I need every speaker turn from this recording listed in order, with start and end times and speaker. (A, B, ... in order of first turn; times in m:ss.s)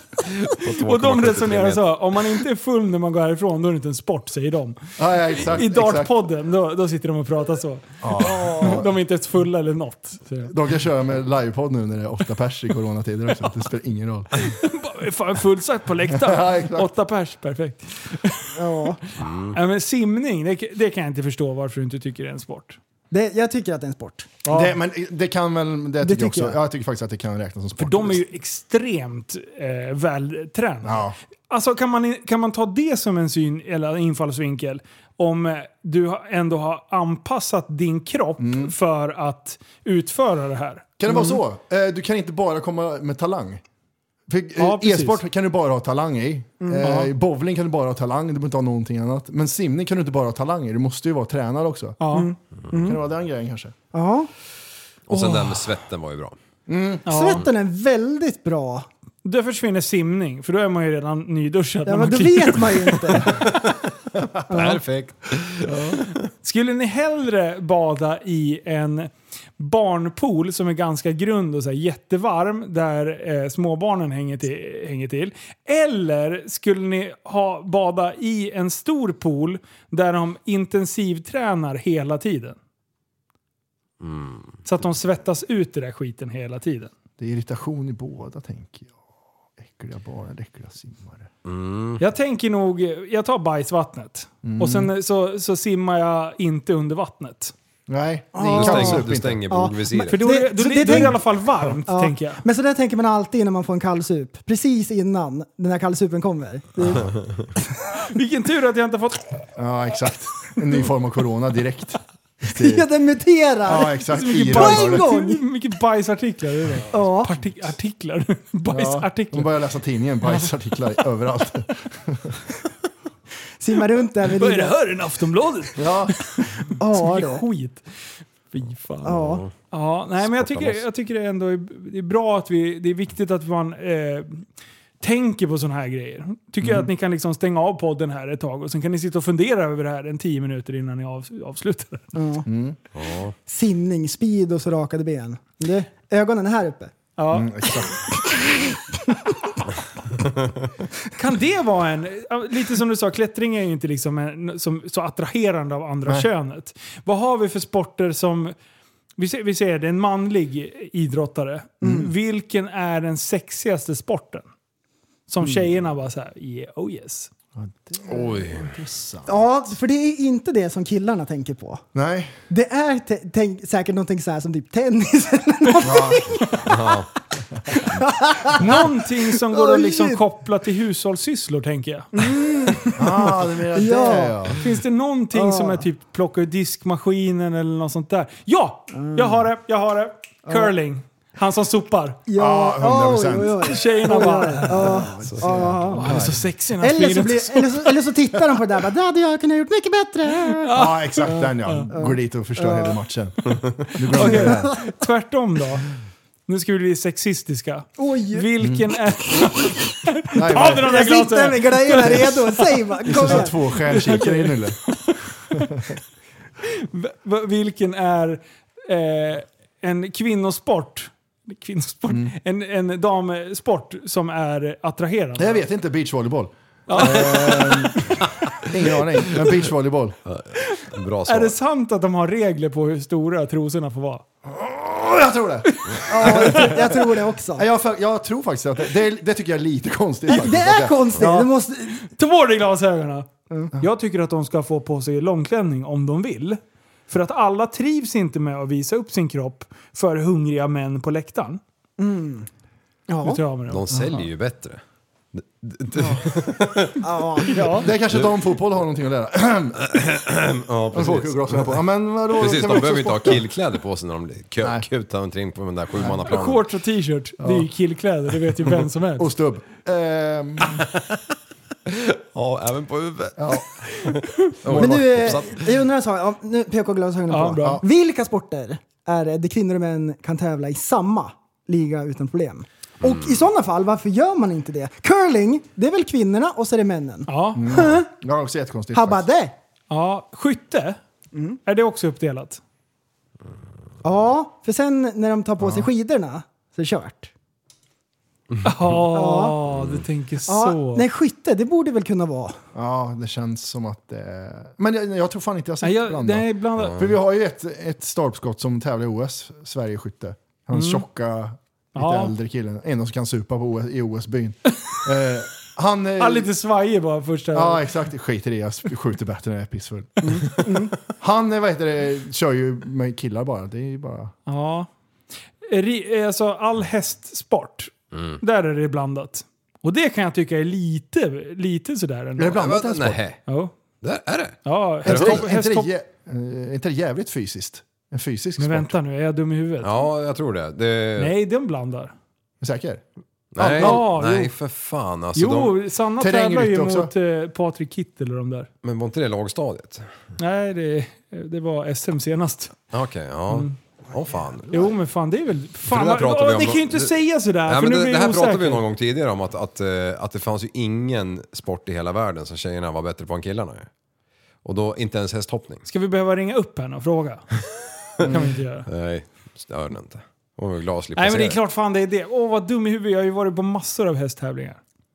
0:00.2-0:01.8 A
0:00.8-0:04.8 B
0:05.0-0:06.1 C
0:05.3-0:10.5 B
0:08.0-0:08.9 C
0:08.2-0:08.8 D
0:10.4-0:14.3 C
0:14.4-0:18.5 B
0:16.1-0:16.9 C
0:18.6-0:19.0 D
0:19.1-0:22.8 B
0:19.2-0:19.6 A
0:23.1-0:24.4 D
0:24.4-0:24.7 B
0:24.5-0:28.2 C
0:26.0-0:26.6 D
0:27.8-0:41.4 B
0:30.8-0:31.2 C
0:38.4-0:38.7 C
0:41.0-0:43.6 C
0:44.3-0:52.0 C
0:44.6-0:45.2 B
0:46.6-0:46.9 D
0:46.8-0:47.1 B
0:52.0-0:52.3 B
0:52.1-0:53.0 D
0:52.7-0:53.7 C
0:53.9-0:54.3 D
0:55.1-0:56.4 A
0:56.7-0:57.0 C
0:57.1-0:57.4 B
0:57.1-0:58.9 D
0:59.2-1:03.2 B
1:01.9-1:03.5 D
1:04.5-1:04.8 D
1:04.5-1:05.8 A
1:05.6-1:06.0 C
1:06.4-1:22.6 B
1:24.0-1:24.6 A
1:24.6-1:26.9 B
1:27.2-1:29.0 C
1:29.6-1:31.3 C
1:31.4-1:32.0 A
1:32.0-1:37.5 B
1:34.4-1:34.9 C
1:37.9-1:39.4 C
1:38.4-1:47.0 D
1:38.5-1:40.2 A
1:40.1-1:42.4 B
1:46.8-1:47.1 C
1:48.1-1:49.3 B
1:49.6-1:52.9 C
1:52.5-1:55.4 D
1:53.6-1:55.1 C
1:54.1-1:59.5 B
1:56.9-1:57.3 D
1:58.7-2:02.4 C
2:03.6-2:04.7 D
2:04.3-2:07.8 B
2:05.8-2:06.1 C
2:06.8-2:07.4 D
2:08.5-2:09.2 B
2:09.0-2:09.4 D
2:09.2-2:09.5 A
2:09.7-2:14.4 B
2:15.0-2:22.0 B
2:16.6-2:16.9 C
2:22.1-2:22.5 D
2:22.4-2:22.8 C
2:23.0-2:23.4 A
2:23.5-2:26.9 D
2:27.2-2:27.5 B
2:27.3-2:28.4 C
2:31.2-2:38.5 B
2:39.2-2:44.5 B
2:41.8-2:42.1 D
2:45.3-2:47.3 B
2:47.6-2:49.4 C
2:48.1-2:48.7 A
2:49.3-2:51.8 D
2:51.9-2:52.4 C
2:52.5-2:56.7 D
2:55.8-2:56.4 C
2:56.7-2:57.1 A
2:57.7-3:00.2 D
2:58.6-3:02.2 B
3:02.1-3:04.6 D
3:02.9-3:04.6 C
3:04.6-3:12.2 B
3:05.3-3:05.8 D
3:08.9-3:09.4 D
3:10.5-3:10.7 D
3:12.3-3:23.0 D
3:12.4-3:13.8 C
3:13.6-3:15.0 B
3:14.6-3:16.4 C
3:15.9-3:17.9 B
3:20.4-3:21.9 B
3:20.7-3:24.7 C
3:24.1-3:25.9 B
3:24.1-3:24.8 D
3:26.5-3:35.9 B
3:28.0-3:28.5 D
3:30.4-3:30.9 C
3:30.5-3:33.6 D
3:33.0-3:34.8 C
3:36.7-3:45.6 B
3:42.1-3:42.4 C
3:45.4-3:50.2 C
3:46.9-3:48.0 B
3:50.3-3:51.6 A
3:50.7-3:54.2 B
3:54.4-4:01.2 C
3:56.1-3:57.7 D
4:00.3-4:02.0 D
4:01.2-4:01.5 B
4:02.0-4:11.6 B
4:12.0-4:12.5 D
4:13.1-4:13.4 D
4:13.2-4:13.8 B
4:13.7-4:14.8 A
4:13.9-4:14.3 C
4:15.4-4:17.0 A
4:16.0-4:16.4 C
4:17.0-4:17.8 D
4:17.5-4:17.9 B
4:17.8-4:19.8 C
4:19.8-4:21.8 A
4:20.9-4:23.4 C
4:22.4-4:26.7 A
4:24.6-4:24.9 C
4:25.9-4:26.3 C
4:26.3-4:29.3 B
4:27.4-4:27.7 C
4:29.2-4:30.8 C
4:30.7-4:31.0 A
4:31.9-4:35.7 A
4:33.4-4:33.7 C
4:34.6-4:35.4 C
4:34.7-4:48.1 D
4:37.3-4:37.8 B
4:43.0-4:43.3 A
4:47.3-4:47.6 B
4:47.6-4:49.2 C
4:48.9-4:49.5 D
4:49.9-4:51.0 B
4:51.3-4:51.6 D
4:51.6-4:52.6 B
4:54.0-4:57.3 D
4:55.6-4:55.9 C
4:58.6-5:01.0 B
4:59.1-4:59.6 D
4:59.7-5:00.0 A
5:00.5-5:02.6 D
5:02.7-5:16.5 C
5:05.8-5:07.0 B
5:10.7-5:11.0 B
5:12.0-5:12.3 B
5:16.2-5:17.8 B
5:17.5-5:24.3 C
5:20.2-5:20.6 B
5:20.6-5:20.9 D
5:24.4-5:24.9 B
5:25.7-5:32.6 B
5:28.1-5:28.4 A
5:32.4-5:33.2 C
5:32.6-5:33.4 A
5:33.5-5:33.7 B
5:34.0-5:35.4 A
5:34.6-5:35.9 B
5:35.0-5:38.9 C
5:38.6-5:39.9 B
5:39.8-5:41.3 A
5:41.2-5:42.1 B
5:42.6-5:43.0 C
5:43.6-5:45.8 A
5:43.6-5:44.1 C
5:43.8-5:44.5 B
5:45.4-5:48.7 B
5:46.2-5:47.1 C
5:48.8-5:50.1 A
5:50.4-5:52.8 B
5:52.9-5:54.7 A
5:53.5-5:53.7 B
5:54.7-5:58.8 B
5:55.9-5:57.1 A
5:57.7-6:03.9 A
6:04.6-6:05.8 A
6:05.9-6:07.4 B
6:08.2-6:08.9 B
6:08.9-6:11.6 A
6:11.2-6:14.8 B